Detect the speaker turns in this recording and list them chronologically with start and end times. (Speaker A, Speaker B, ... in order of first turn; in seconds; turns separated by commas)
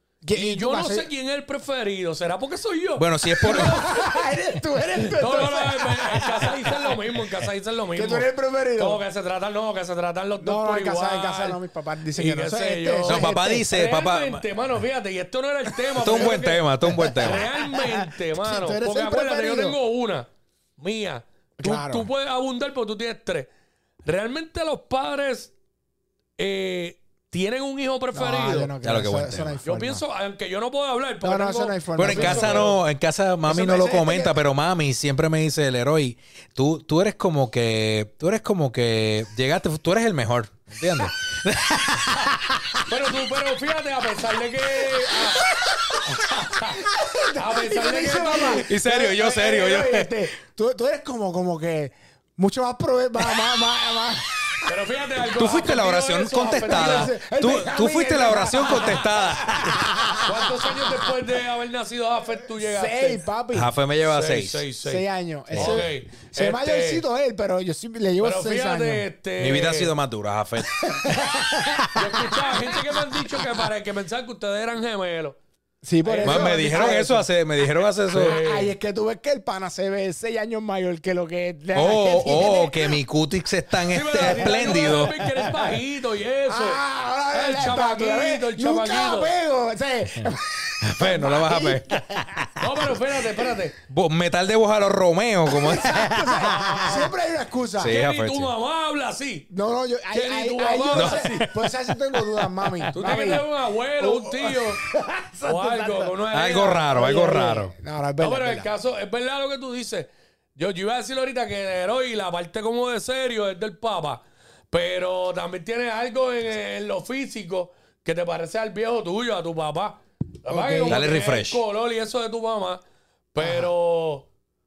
Speaker A: 0.2-1.1, Speaker B: 0.3-4.2, Speaker C: 3.0-3.9, Speaker A: 3.4-7.0, Speaker B: 5.1-11.6, Speaker A: 7.9-9.0, Speaker A: 10.4-13.7, Speaker B: 12.2-23.5, Speaker C: 13.1-14.5, Speaker A: 15.9-19.8, Speaker C: 16.0-17.5, Speaker A: 21.6-22.1, Speaker B: 24.0-25.5, Speaker B: 26.4-28.7, Speaker A: 28.1-30.0, Speaker C: 28.8-29.6, Speaker B: 29.6-32.8, Speaker A: 31.2-32.7, Speaker C: 32.0-42.7, Speaker A: 33.5-34.3, Speaker B: 42.9-45.4, Speaker A: 45.9-54.7, Speaker B: 46.0-48.6, Speaker C: 48.6-50.1, Speaker B: 54.6-57.1, Speaker C: 55.3-60.2, Speaker A: 56.3-61.0, Speaker B: 58.5-59.0, Speaker B: 60.2-63.2, Speaker A: 62.6-63.7, Speaker C: 63.5-64.6, Speaker B: 64.0-65.0, Speaker A: 64.8-69.0, Speaker C: 65.5-65.8, Speaker B: 65.5-67.0, Speaker B: 68.2-69.9, Speaker C: 69.4-71.9, Speaker A: 70.8-73.2, Speaker B: 71.9-75.4, Speaker A: 75.8-77.2, Speaker B: 76.0-77.2, Speaker C: 76.2-78.4, Speaker B: 78.1-78.7, Speaker A: 78.1-83.0, Speaker C: 81.7-85.1, Speaker B: 83.9-89.3, Speaker A: 84.2-85.8, Speaker A: 86.5-92.5, Speaker C: 90.1-92.7, Speaker B: 92.6-93.8, Speaker C: 93.9-97.1, Speaker A: 95.5-98.0, Speaker C: 97.8-98.5, Speaker B: 97.8-99.5, Speaker A: 99.5-103.4, Speaker B: 100.1-101.5, Speaker C: 100.9-102.9, Speaker B: 102.9-104.8, Speaker A: 104.0-106.1, Speaker B: 105.4-107.7, Speaker C: 106.3-107.7, Speaker A: 106.9-108.7, Speaker B: 108.2-122.8, Speaker A: 120.5-121.0, Speaker C: 120.9-121.6, Speaker B: 123.3-124.3, Speaker A: 123.4-123.7